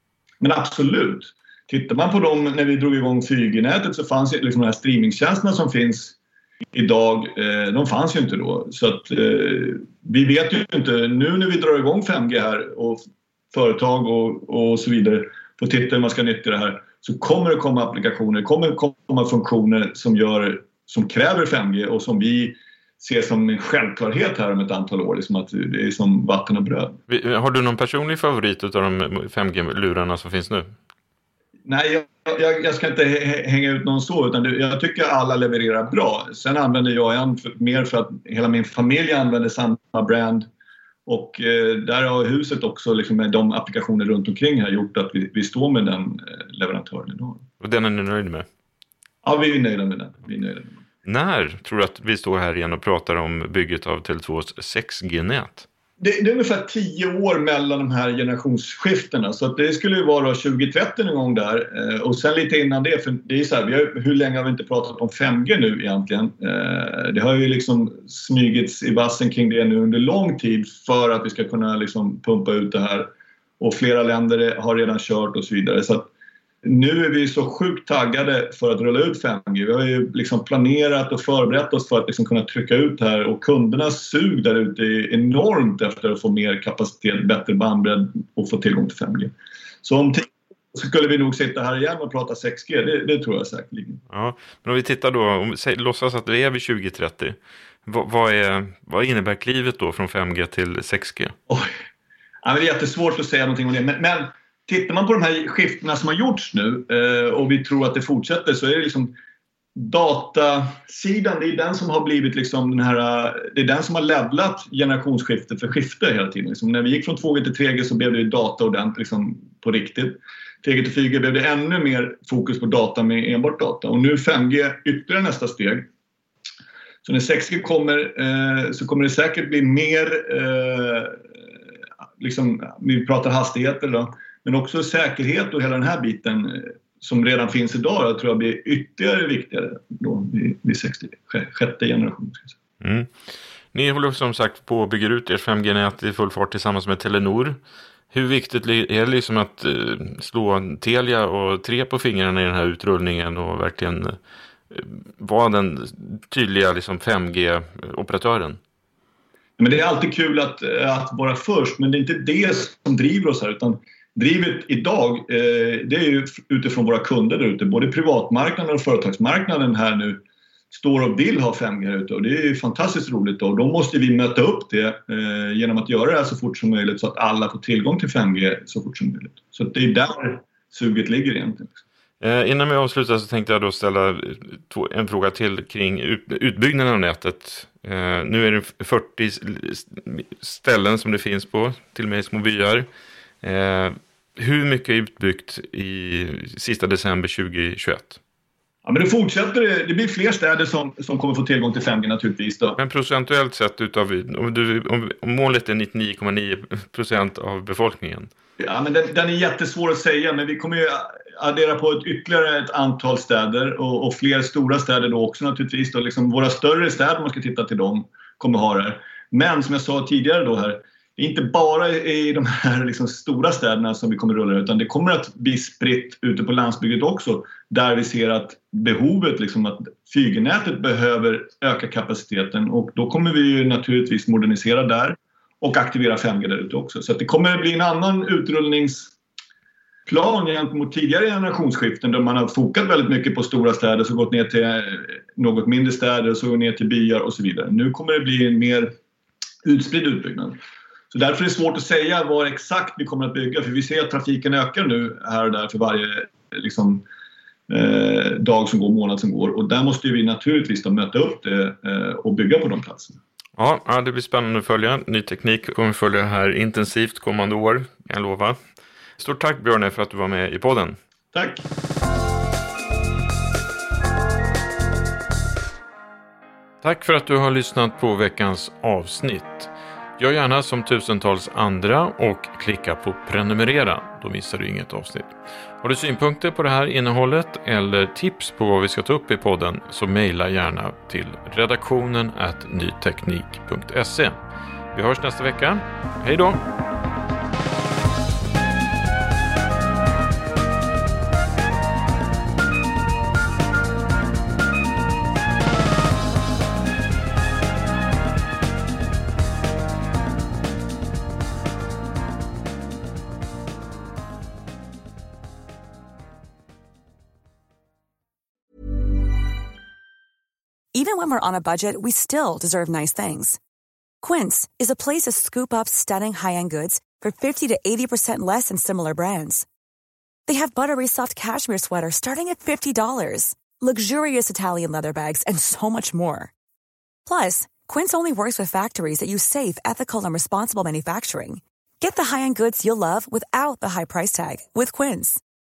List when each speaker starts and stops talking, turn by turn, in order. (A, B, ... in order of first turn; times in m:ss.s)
0:00.4-0:06.2 A
0:06.7-0:27.0 A
0:27.1-0:30.7 B
0:31.6-0:40.5 A
0:41.0-0:47.4 A
0:47.6-0:48.4 B
0:49.2-0:50.7 A
0:51.0-0:55.6 B
0:56.0-1:16.1 A
1:16.6-1:29.3 A
1:29.8-1:34.0 A
1:34.1-1:41.3 B
1:42.4-1:49.1 A
1:49.8-2:05.9 A
2:07.0-2:11.2 A
2:12.2-2:22.5 A
2:22.8-2:23.1 B
2:23.7-2:27.6 B
2:28.1-2:34.2 B
2:34.7-2:38.6 B
2:39.6-3:01.7 A
3:02.2-3:12.9 B
3:13.4-3:18.2 B
3:18.8-3:22.8 A
3:22.8-3:28.3 B
3:28.6-3:59.1 A
4:00.1-4:08.9 A
4:09.6-4:10.6 A
4:11.1-4:17.0 A
4:17.7-4:23.2 A
4:23.6-4:28.6 B
4:29.2-4:31.0 B
4:31.3-4:31.6 A
4:36.8-4:54.4 B
4:54.9-4:56.6 B
5:20.9-5:23.6 C
5:24.2-5:29.7 C
5:30.5-5:36.5 C
5:37.2-5:45.4 C